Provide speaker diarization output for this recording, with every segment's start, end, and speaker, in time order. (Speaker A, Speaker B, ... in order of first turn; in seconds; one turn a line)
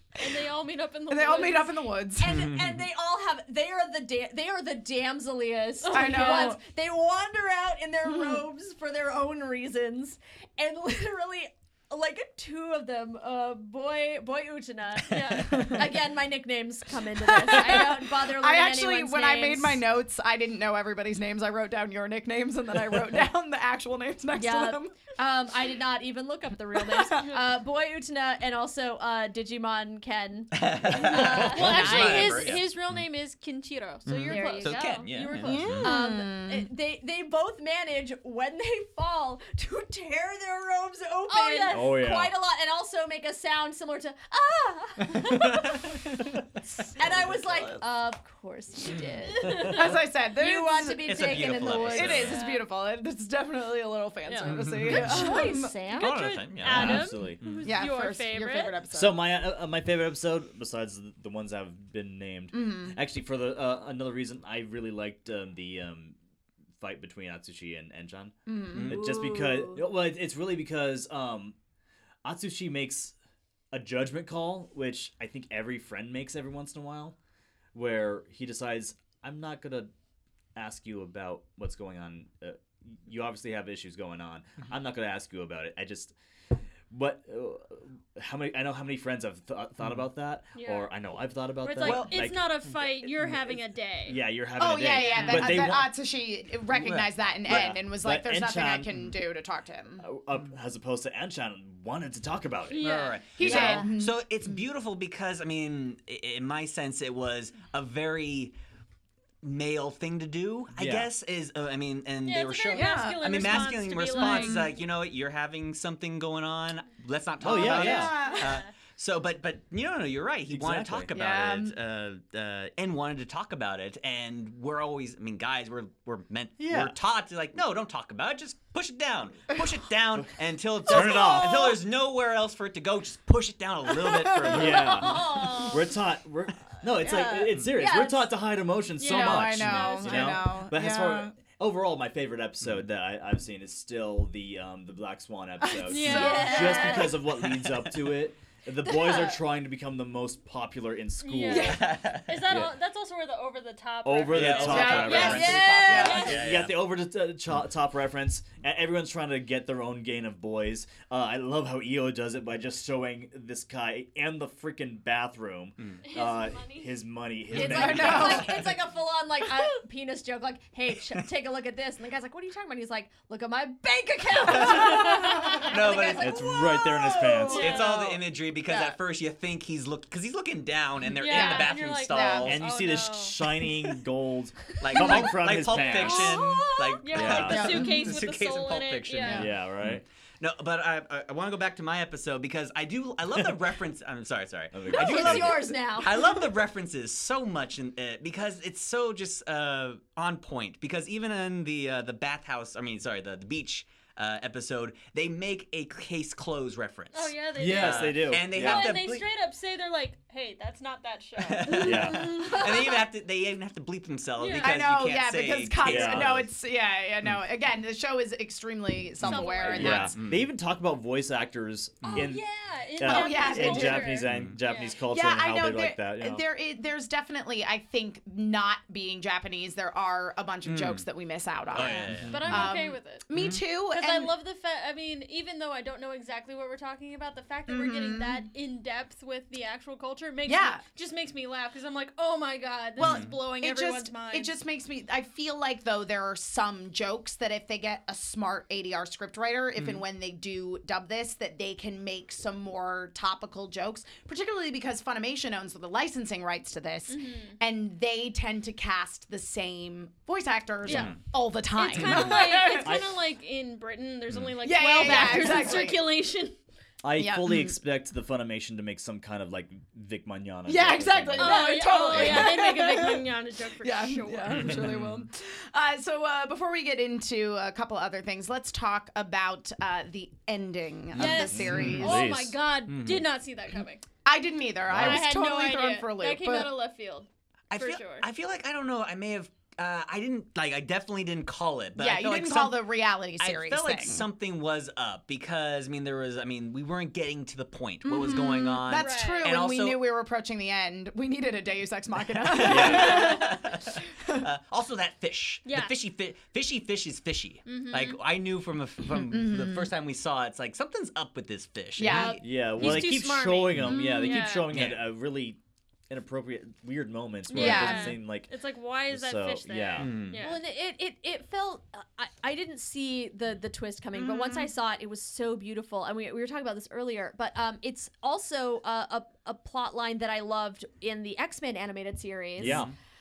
Speaker A: 0.1-1.8
Speaker B: 1.1-2.4
Speaker C: 2.2-19.8
Speaker D: 2.3-2.8
Speaker A: 5.8-6.6
Speaker B: 5.9-6.6
Speaker B: 8.1-8.4
Speaker A: 15.1-15.8
Speaker B: 15.4-15.8
Speaker B: 17.2-24.9
Speaker C: 24.3-32.5
Speaker B: 26.7-27.3
Speaker D: 30.5-33.0
Speaker A: 31.0-35.6
Speaker B: 31.7-32.5
Speaker D: 34.0-35.9
Speaker C: 34.2-35.2
Speaker B: 35.4-36.7
Speaker E: 35.5-35.9
Speaker C: 35.8-46.4
Speaker A: 41.3-41.9
Speaker E: 41.7-42.3
Speaker D: 45.2-45.8
Speaker C: 46.9-52.4
Speaker D: 47.5-47.8
Speaker D: 48.9-49.2
Speaker A: 49.4-49.8
Speaker B: 49.7-55.7
Speaker D: 50.8-52.5
Speaker A: 52.2-52.6
Speaker A: 54.3-54.6
Speaker D: 54.4-55.3
Speaker C: 54.9-56.3
Speaker A: 55.1-58.7
Speaker D: 55.9-57.7
Speaker E: 56.7-57.4
Speaker B: 57.6-59.2
Speaker E: 58.9-66.2
Speaker B: 62.5-63.0
Speaker E: 66.8-71.5
Speaker B: 68.5-69.0
Speaker D: 68.7-69.1
Speaker C: 68.9-69.8
Speaker E: 72.2-73.1
Speaker E: 73.7-77.1
Speaker E: 77.7-79.9
Speaker E: 80.5-86.1
Speaker E: 86.9-92.6
Speaker A: 90.5-90.9
Speaker A: 91.6-94.2
Speaker D: 91.8-92.2
Speaker E: 93.2-95.9
Speaker B: 94.6-100.0
Speaker A: 95.0-95.3
Speaker D: 95.1-95.7
Speaker E: 96.7-99.1
Speaker E: 100.0-103.8
Speaker A: 102.7-103.2
Speaker D: 102.8-108.5
Speaker B: 103.3-104.2
Speaker C: 103.4-103.8
Speaker D: 109.4-135.2
Speaker E: 110.7-111.1
Speaker A: 112.2-114.7
Speaker B: 112.7-114.7
Speaker E: 117.4-118.3
Speaker B: 117.5-118.6
Speaker A: 118.2-118.7
Speaker E: 120.5-121.1
Speaker B: 121.1-121.7
Speaker E: 126.6-126.9
Speaker E: 130.8-131.7
Speaker C: 130.9-131.7
Speaker B: 134.0-134.8
Speaker C: 134.4-136.0
Speaker E: 134.5-151.8
Speaker B: 137.0-137.5
Speaker C: 137.7-138.3
Speaker A: 139.0-140.5
Speaker B: 139.0-141.3
Speaker B: 145.6-146.7
Speaker A: 145.9-147.1
Speaker C: 146.0-147.2
Speaker C: 148.9-149.3
Speaker A: 151.2-156.5
Speaker B: 151.5-151.8
Speaker D: 151.6-152.5
Speaker E: 152.5-152.7
Speaker E: 154.0-168.6
Speaker D: 154.3-156.8
Speaker B: 154.7-156.3
Speaker C: 155.1-156.3
Speaker A: 166.0-167.0
Speaker D: 167.5-168.8
Speaker C: 167.5-178.1
Speaker B: 167.5-168.5
Speaker D: 174.4-176.6
Speaker A: 175.0-175.7
Speaker E: 176.1-177.9
Speaker D: 177.5-182.6
Speaker A: 177.5-178.2
Speaker C: 178.7-179.0
Speaker A: 181.2-183.7
Speaker B: 181.2-182.5
Speaker E: 182.4-186.4
Speaker D: 184.8-209.2
Speaker C: 184.9-187.1
Speaker A: 187.0-189.5
Speaker E: 187.1-187.9
Speaker B: 187.5-188.1
Speaker E: 189.3-190.0
Speaker E: 194.7-195.7
Speaker C: 194.9-196.5
Speaker A: 207.1-212.6
Speaker E: 207.6-209.0
Speaker D: 211.4-216.4
Speaker E: 211.8-212.5
Speaker C: 212.2-213.0
Speaker A: 214.4-214.7
Speaker B: 214.5-220.2
Speaker E: 215.8-216.5
Speaker A: 219.2-220.1
Speaker E: 219.3-222.4
Speaker D: 219.7-220.5
Speaker D: 222.0-222.3
Speaker A: 222.0-225.0
Speaker E: 223.0-226.4
Speaker B: 223.1-224.2
Speaker D: 224.3-224.6
Speaker B: 225.1-234.3
Speaker D: 230.6-231.0
Speaker D: 231.7-232.7
Speaker A: 231.7-233.2
Speaker E: 232.3-232.6
Speaker D: 233.3-233.7
Speaker A: 233.8-244.6
Speaker B: 237.7-238.5
Speaker B: 240.5-240.8
Speaker D: 243.0-243.4
Speaker B: 243.0-262.9
Speaker D: 249.8-250.0
Speaker A: 257.1-257.6
Speaker A: 260.9-261.1
Speaker D: 260.9-261.2
Speaker A: 261.7-266.6
Speaker D: 262.0-262.3
Speaker E: 262.8-263.1
Speaker B: 264.6-266.0
Speaker E: 267.0-272.6
Speaker B: 267.1-267.8
Speaker B: 270.6-282.2
Speaker A: 271.4-274.7
Speaker C: 271.5-272.1
Speaker D: 274.5-275.2
Speaker A: 281.1-284.0
Speaker E: 281.2-282.6
Speaker D: 281.7-282.1
Speaker D: 282.9-283.3
Speaker B: 284.2-286.7
Speaker E: 284.9-285.2
Speaker A: 284.9-288.3
Speaker D: 287.7-300.0
Speaker B: 291.9-294.3
Speaker B: 298.0-303.5
Speaker A: 298.9-299.6
Speaker D: 302.4-313.1
Speaker A: 302.6-303.7
Speaker E: 302.6-303.4
Speaker A: 305.6-305.9
Speaker A: 307.7-308.2
Speaker B: 309.2-309.9
Speaker B: 312.0-312.4
Speaker A: 312.1-314.8
Speaker E: 312.2-315.6
Speaker D: 313.7-315.0
Speaker E: 316.1-318.5
Speaker A: 317.5-320.6
Speaker B: 317.5-318.1
Speaker E: 319.1-320.2
Speaker D: 320.0-320.4
Speaker C: 320.4-332.9
Speaker B: 324.1-324.7
Speaker E: 332.6-332.9
Speaker D: 332.6-332.9